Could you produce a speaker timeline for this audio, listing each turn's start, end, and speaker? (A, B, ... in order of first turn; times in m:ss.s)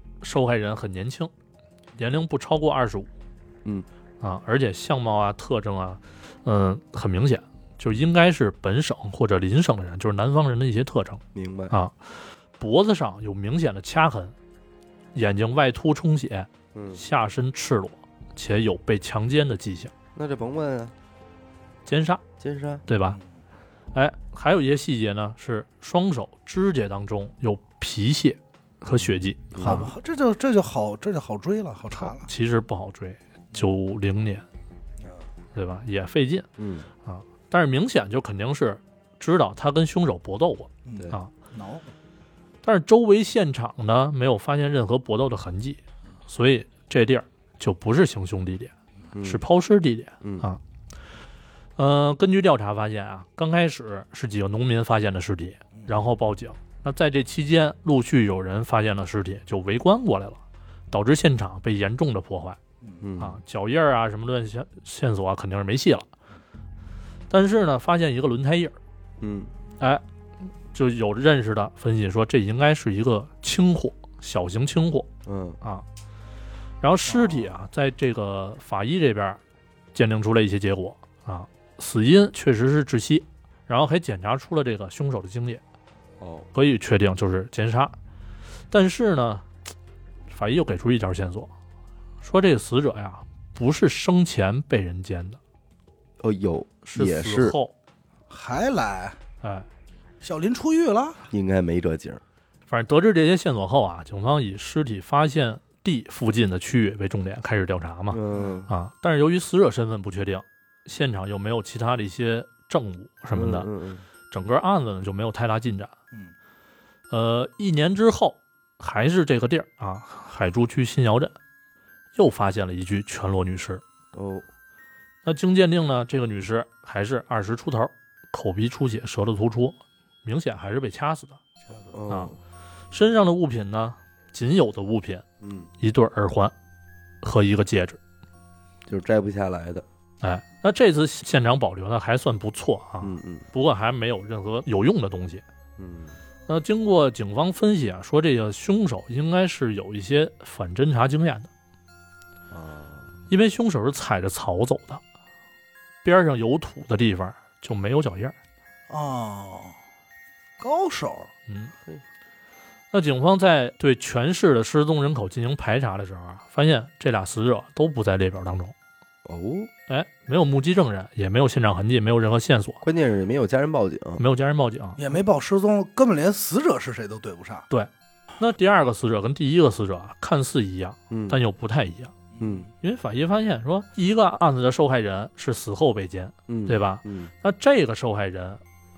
0:00.2-0:01.3 A
0:02.0-0:03.1 A
0:04.2-0:12.0 A
0:11.3-0:11.8 B
0:12.6-0:14.3 A
0:15.1-0:19.9 A
0:16.8-0:17.0 B
0:20.2-0:20.9 B
0:21.9-0:22.2 A
0:22.4-0:22.8 B
0:22.9-0:23.2 A
0:23.9-0:29.9 A
0:28.9-0:29.9 B
0:29.6-0:32.3 C
0:32.0-0:34.4 A
0:35.6-0:36.5 A
0:36.6-0:36.9 B
0:37.0-0:41.3 A
0:40.9-0:41.9 C
0:42.6-0:50.6 A
0:49.2-0:49.4 B
0:50.2-0:50.5 B
0:51.8-1:00.4 A
1:00.9-1:02.6 A
1:03.0-1:03.4 B
1:03.2-1:06.1 A
1:07.3-1:08.8 A
1:09.2-1:09.5 B
1:10.7-1:15.1 A
1:15.3-1:15.6 B
1:16.8-1:19.4 A
1:17.1-1:17.4 C
1:19.9-1:25.6 A
1:26.2-1:26.5 B
1:26.5-1:28.0 A
1:28.7-1:29.4 A
1:30.3-1:31.5 A
1:32.2-1:35.4 A
1:36.2-1:37.6 B
1:36.9-1:37.7 A
1:38.3-1:39.2 C
1:39.4-1:39.7 A
1:40.2-1:41.2 C
1:41.3-1:42.2 B
1:42.7-1:53.7 A
1:48.1-1:48.7 B
1:53.3-1:54.0 B
1:54.3-1:55.9 A
1:57.1-2:01.4 A
2:02.2-2:03.8 A
2:04.1-2:04.5 B
2:05.2-2:11.4 A
2:11.9-2:12.4 B
2:12.9-2:15.2 A
2:15.4-2:15.7 B
2:15.8-2:16.5 A
2:17.2-2:18.0 A
2:18.9-2:19.8 B
2:20.2-2:25.4 A
2:23.0-2:23.5 B
2:25.8-2:26.2 B
2:26.5-2:31.5 A
2:32.5-2:33.1 B
2:33.3-2:35.0 A
2:36.0-2:38.4 A
2:38.9-2:39.8 C
2:40.6-2:41.3 C
2:41.5-2:41.7 A
2:42.9-2:48.7 A
2:49.2-2:49.7 B
2:49.9-2:52.8 A
2:52.8-2:54.2 B
2:54.2-2:55.0 A
2:55.0-2:57.7 C
2:57.7-3:02.1 A
3:01.1-3:01.4 B
3:02.4-3:02.7 C
3:02.4-3:02.7 B
3:02.8-3:08.6 A
3:06.5-3:07.3 B